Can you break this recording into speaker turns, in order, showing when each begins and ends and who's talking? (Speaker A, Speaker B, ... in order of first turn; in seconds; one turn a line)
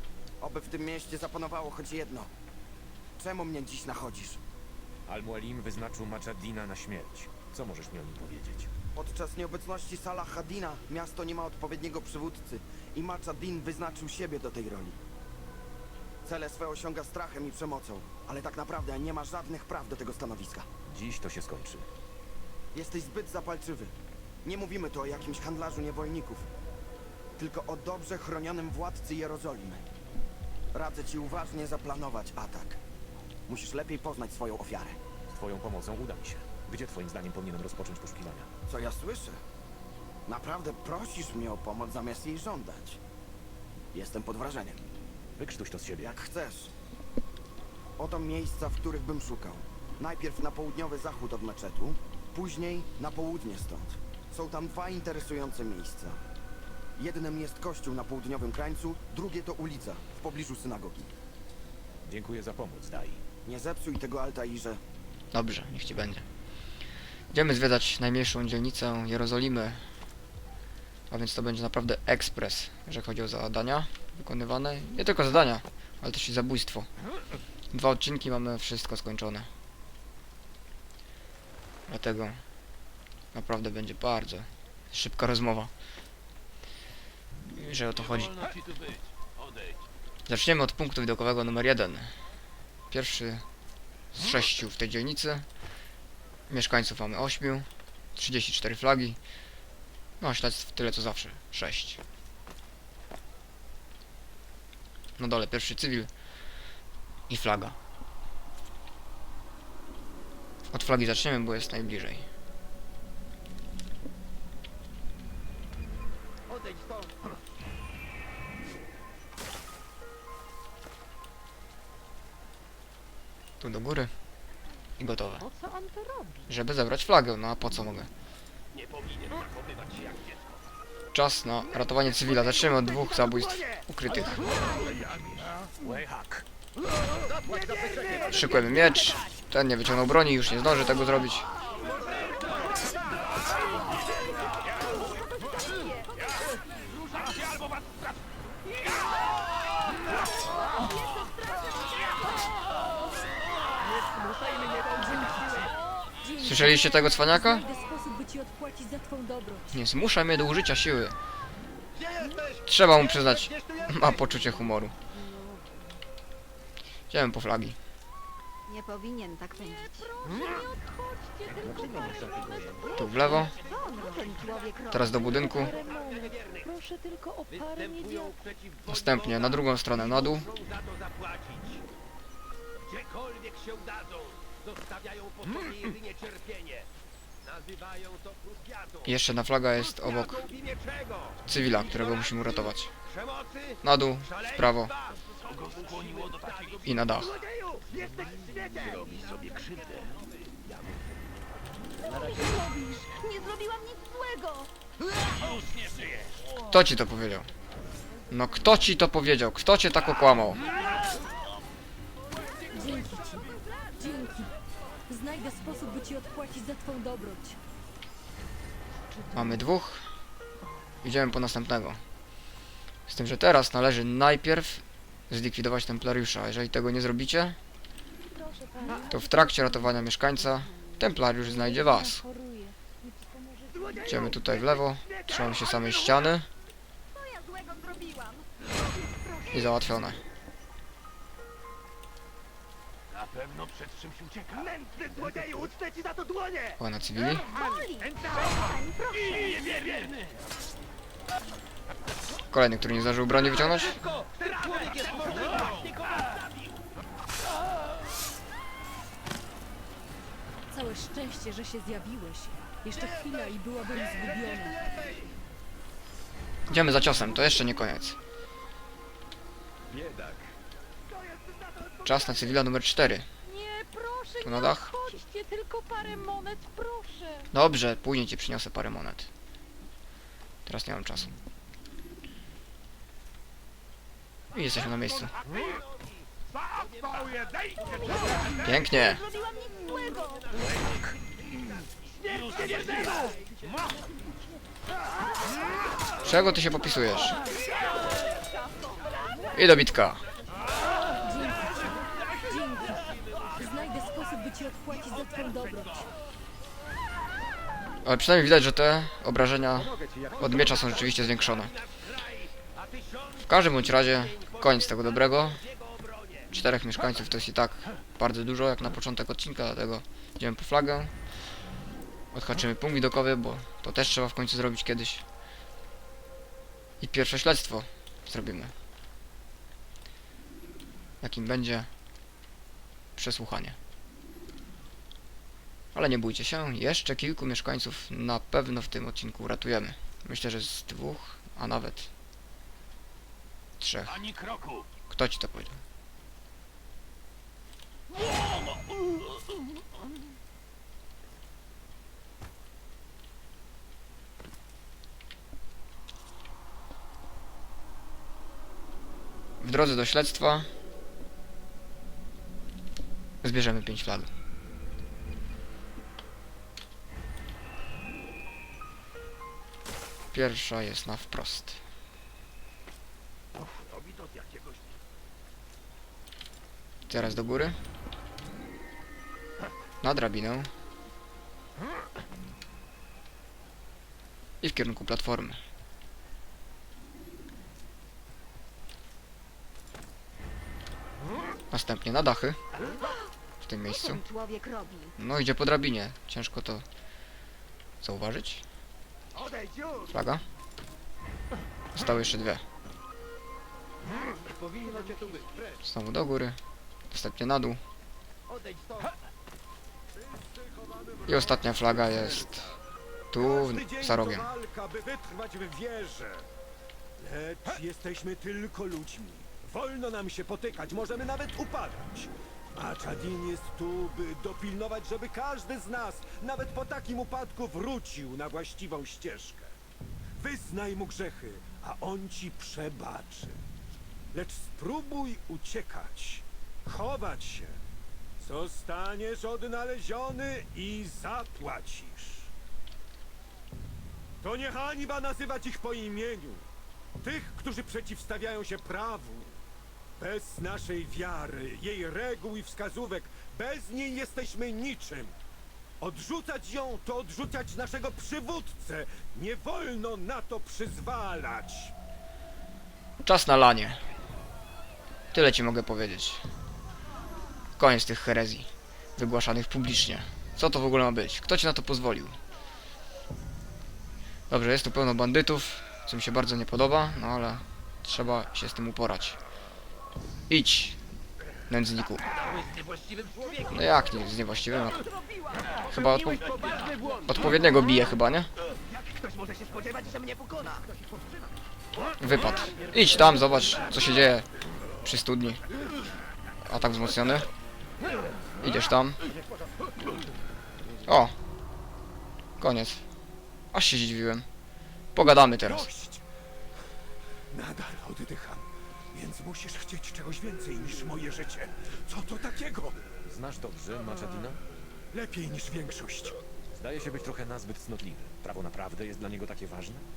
Speaker A: 0.4-2.3
Speaker A: 3.2-4.4
Speaker B: 5.1-8.7
Speaker A: 8.9-15.0
Speaker A: 16.2-20.7
Speaker B: 20.9-21.9
Speaker A: 22.7-26.5
Speaker A: 27.4-29.8
Speaker A: 30.7-32.8
Speaker A: 33.5-35.0
Speaker B: 35.3-38.5
Speaker A: 38.7-39.4
Speaker A: 40.3-43.0
Speaker A: 43.9-44.8
Speaker B: 45.4-46.1
Speaker A: 46.0-46.7
Speaker A: 48.0-56.2
Speaker A: 57.0-61.1
Speaker B: 62.0-63.2
Speaker A: 63.5-64.8
Speaker C: 65.3-66.2
Speaker C: 67.3-69.8
Speaker C: 71.1-76.9
Speaker C: 77.7-79.5
Speaker C: 81.9-82.4
Speaker C: 83.3-85.7
Speaker C: 87.5-88.4
Speaker D: 88.0-89.8
Speaker C: 90.3-92.1
Speaker C: 92.9-93.4
Speaker C: 94.1-95.5
Speaker C: 96.5-99.2
Speaker C: 100.2-102.0
Speaker C: 105.2-106.1
Speaker C: 107.3-107.8
Speaker C: 110.7-112.3
Speaker C: 123.6-124.1
Speaker C: 125.0-125.5
Speaker E: 125.5-126.5
Speaker C: 126.5-128.1
Speaker D: 128.7-130.5
Speaker C: 131.1-134.5
Speaker B: 135.8-136.4
Speaker C: 138.3-141.5
Speaker E: 143.5-146.6
Speaker E: 150.2-152.5
Speaker F: 154.9-159.7
Speaker E: 155.0-155.5
Speaker C: 156.4-157.6
Speaker C: 159.7-161.1
Speaker C: 162.6-164.9
Speaker E: 165.1-165.6
Speaker C: 167.1-167.8
Speaker E: 168.7-170.1
Speaker F: 169.9-173.0
Speaker E: 172.6-175.8
Speaker C: 172.9-173.6
Speaker C: 174.9-175.7
Speaker F: 175.4-178.4
Speaker C: 178.8-180.5
Speaker C: 189.0-190.5
Speaker C: 191.4-192.9
Speaker C: 193.8-194.9
Speaker D: 195.4-196.9
Speaker C: 196.8-197.3
Speaker D: 198.8-200.0
Speaker B: 198.8-199.5
Speaker E: 202.0-204.7
Speaker D: 205.3-206.2
Speaker C: 206.7-207.5
Speaker C: 208.3-210.6
Speaker F: 212.7-214.5
Speaker F: 215.1-217.6
Speaker C: 219.3-220.0
Speaker C: 221.0-222.0
Speaker C: 223.1-227.6
Speaker F: 228.6-229.0
Speaker C: 229.1-232.2
Speaker F: 232.0-232.7
Speaker C: 234.0-236.5
Speaker E: 237.1-239.8
Speaker C: 239.5-240.2
Speaker D: 243.1-244.8
Speaker C: 246.8-247.4
Speaker E: 247.1-249.7
Speaker C: 252.5-254.0
Speaker D: 254.4-255.9
Speaker F: 260.7-264.8
Speaker C: 266.7-268.2
Speaker B: 269.9-270.4
Speaker C: 272.0-273.3
Speaker F: 273.9-277.3
Speaker C: 274.4-274.9
Speaker C: 277.5-279.3
Speaker C: 280.6-281.3
Speaker C: 284.5-285.3
Speaker E: 287.9-290.6
Speaker C: 288.6-289.2
Speaker D: 292.5-293.1
Speaker C: 296.2-297.4
Speaker E: 298.3-299.8
Speaker C: 299.5-300.2
Speaker F: 301.2-306.1
Speaker C: 308.0-311.8
Speaker C: 313.4-315.6
Speaker C: 316.5-321.1
Speaker C: 322.3-325.2
Speaker C: 327.0-328.7
Speaker C: 331.2-331.9
Speaker C: 333.1-333.8
Speaker C: 335.9-342.1
Speaker C: 343.8-344.2
Speaker D: 344.1-344.9
Speaker C: 345.1-345.8
Speaker C: 359.6-360.7
Speaker C: 363.4-364.3
Speaker C: 370.3-371.8
Speaker D: 373.9-374.7
Speaker C: 377.1-377.8
Speaker C: 380.0-380.7
Speaker C: 384.6-385.6
Speaker C: 391.7-392.6
Speaker C: 393.6-394.2
Speaker E: 393.8-395.1
Speaker C: 395.2-396.8
Speaker C: 398.0-398.6
Speaker C: 400.1-400.4
Speaker C: 401.9-402.6
Speaker E: 405.0-405.4
Speaker C: 405.8-406.6
Speaker C: 407.1-407.8
Speaker G: 410.1-412.2
Speaker C: 411.3-412.7
Speaker C: 413.3-414.5
Speaker G: 413.3-416.4
Speaker G: 417.2-429.7
Speaker G: 430.4-433.6
Speaker G: 434.3-437.8
Speaker G: 438.4-442.5
Speaker G: 444.4-446.6
Speaker G: 447.2-449.6
Speaker G: 450.2-455.4
Speaker G: 456.0-461.9
Speaker C: 463.2-464.0
Speaker C: 465.3-466.4
Speaker C: 467.8-472.4
Speaker C: 474.5-479.4
Speaker C: 480.5-481.0
Speaker C: 481.7-482.2
Speaker D: 482.6-483.3
Speaker C: 483.7-485.0
Speaker C: 485.9-486.4
Speaker C: 487.2-488.5
Speaker C: 492.2-494.5
Speaker C: 495.0-495.6
Speaker C: 496.6-497.5
Speaker C: 498.6-499.2
Speaker C: 501.1-501.3
Speaker C: 502.6-503.0
Speaker C: 503.7-504.4
Speaker C: 505.1-505.9
Speaker G: 505.4-506.2
Speaker G: 507.5-513.0
Speaker B: 513.2-514.6
Speaker G: 515.1-516.4
Speaker B: 516.7-520.0